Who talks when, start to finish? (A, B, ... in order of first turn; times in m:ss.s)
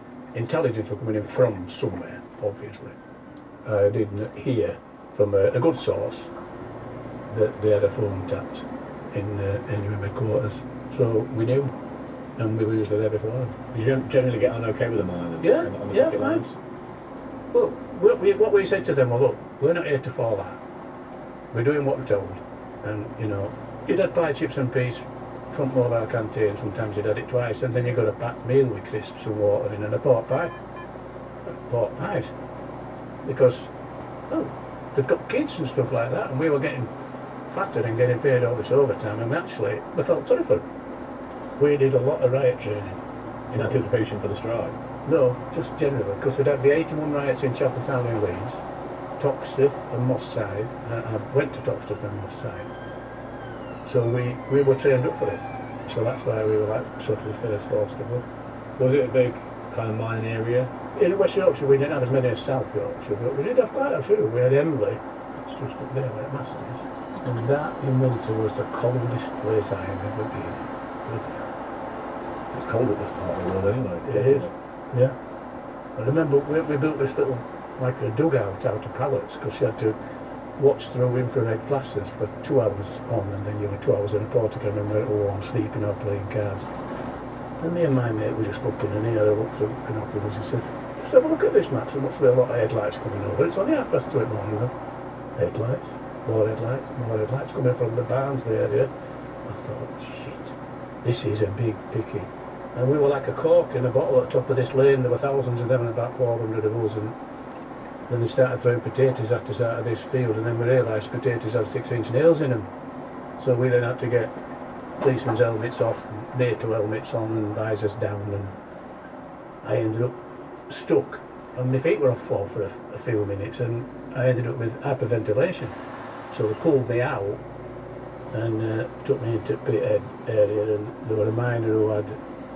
0:00.3-0:03.0 A
0:03.6-0:06.3 A
0:07.3-0:11.7 A
0:12.4-0:13.6 A
0:13.7-0:16.5 B
0:15.4-0:16.4 A
0:17.5-0:20.6 A
0:21.5-0:30.5 A
0:31.4-0:32.3 A
0:33.2-0:33.7 A
0:34.3-0:36.9 A
0:37.5-0:40.6 A
0:41.6-0:43.0 A
0:43.5-0:44.8 B
0:45.0-0:48.6 A
0:49.2-0:52.7 A
0:53.8-0:58.2 A
0:58.8-1:00.7 B
1:00.9-1:11.3 A
1:12.5-1:14.5 B
1:14.0-1:15.2 A
1:16.0-1:20.0 A
1:20.6-1:26.7 A
1:27.6-1:34.7 A
1:35.3-1:38.9 A
1:39.4-1:47.2 A
1:48.1-1:52.7 A
1:53.4-1:54.3 A
1:55.0-1:58.6 A
1:59.6-2:05.7 A
2:06.3-2:07.4 A
2:08.3-2:12.2 A